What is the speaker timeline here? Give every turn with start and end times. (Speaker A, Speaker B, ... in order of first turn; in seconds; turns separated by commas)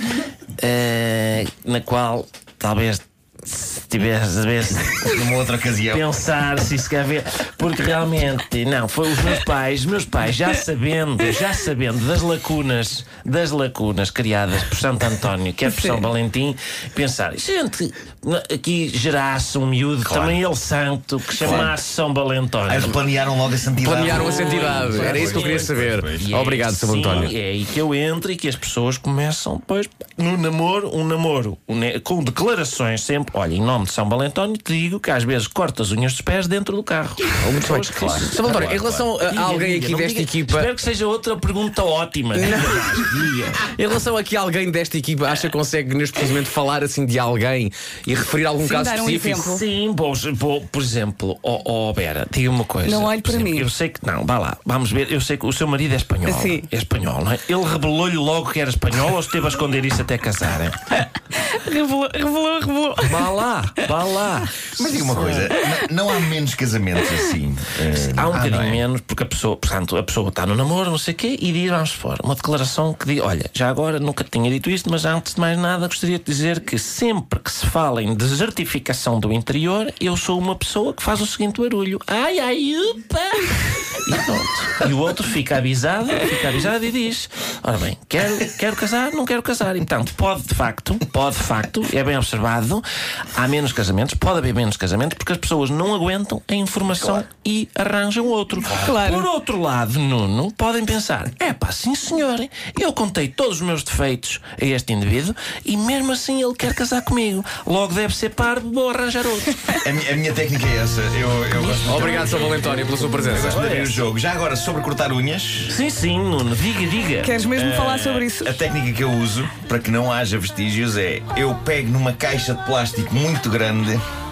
Speaker A: 0.6-23.0, Speaker B: 5.0-6.0, Speaker C: 15.7-16.0, Speaker B: 20.0-20.4, Speaker B: 21.3-21.7, Speaker B: 22.7-26.4, Speaker D: 23.8-27.3, Speaker A: 24.1-43.7, Speaker D: 37.4-40.7, Speaker B: 37.9-39.1, Speaker D: 42.3-43.0, Speaker D: 43.7-49.4, Speaker C: 48.6-49.6, Speaker A: 49.1-60.8, Speaker C: 52.8-53.7, Speaker C: 56.2-56.7, Speaker C: 60.9-63.3, Speaker A: 63.0-65.5, Speaker B: 64.8-68.8, Speaker A: 68.0-92.8, Speaker A: 93.3-109.8, Speaker B: 97.0-97.2, Speaker C: 98.7-99.3, Speaker B: 109.8-112.7, Speaker A: 111.5-114.0, Speaker D: 111.9-113.6, Speaker B: 113.3-115.8, Speaker A: 115.7-117.4, Speaker C: 117.2-118.6, Speaker B: 117.5-124.0